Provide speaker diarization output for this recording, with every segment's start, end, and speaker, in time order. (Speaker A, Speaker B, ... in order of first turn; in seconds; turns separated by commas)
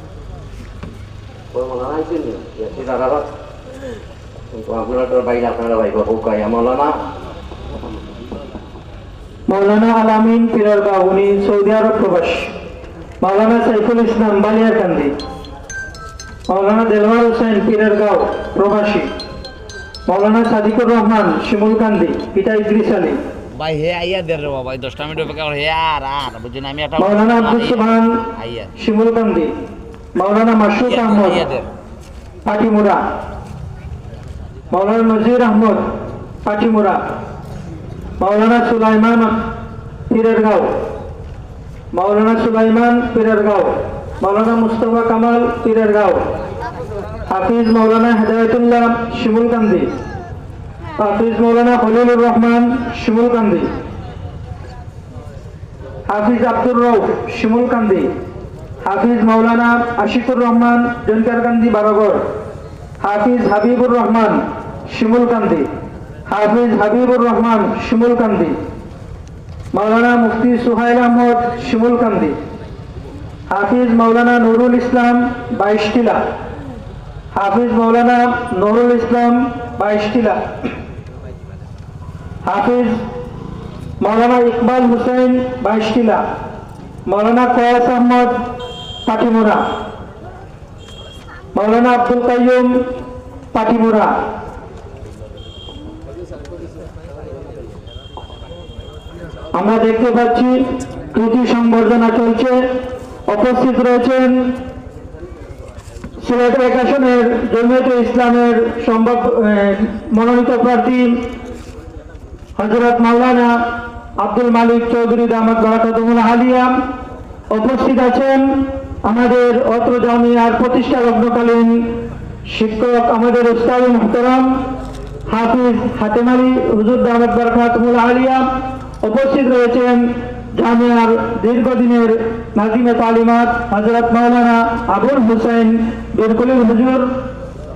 Speaker A: 1.5-3.3, Speaker A: 4.5-7.0, Speaker B: 9.5-12.5, Speaker B: 13.2-15.2, Speaker B: 16.5-19.1, Speaker B: 20.1-23.2, Speaker C: 23.6-28.7, Speaker B: 27.0-29.5, Speaker B: 30.1-31.4, Speaker C: 30.8-31.7, Speaker B: 32.5-33.0, Speaker B: 34.7-35.9, Speaker B: 36.4-37.0, Speaker B: 38.2-39.4, Speaker B: 40.1-40.7, Speaker B: 41.9-46.2, Speaker B: 47.3-49.9, Speaker B: 51.0-53.7, Speaker B: 56.1-58.1, Speaker B: 58.8-62.2, Speaker B: 63.0-65.7, Speaker B: 66.3-68.6, Speaker B: 69.7-72.4, Speaker B: 73.5-76.2, Speaker B: 77.3-80.4, Speaker B: 82.4-83.0, Speaker B: 84.0-86.2, Speaker B: 87.1-88.4, Speaker B: 89.0-89.6, Speaker B: 91.5-92.9, Speaker B: 93.5-94.1, Speaker B: 99.5-100.6, Speaker B: 101.1-102.7, Speaker B: 103.3-104.6, Speaker B: 106.2-111.3, Speaker B: 112.6-113.6, Speaker B: 114.2-116.8, Speaker B: 117.5-121.8, Speaker B: 122.5-124.6, Speaker B: 125.3-128.5, Speaker B: 129.0-137.1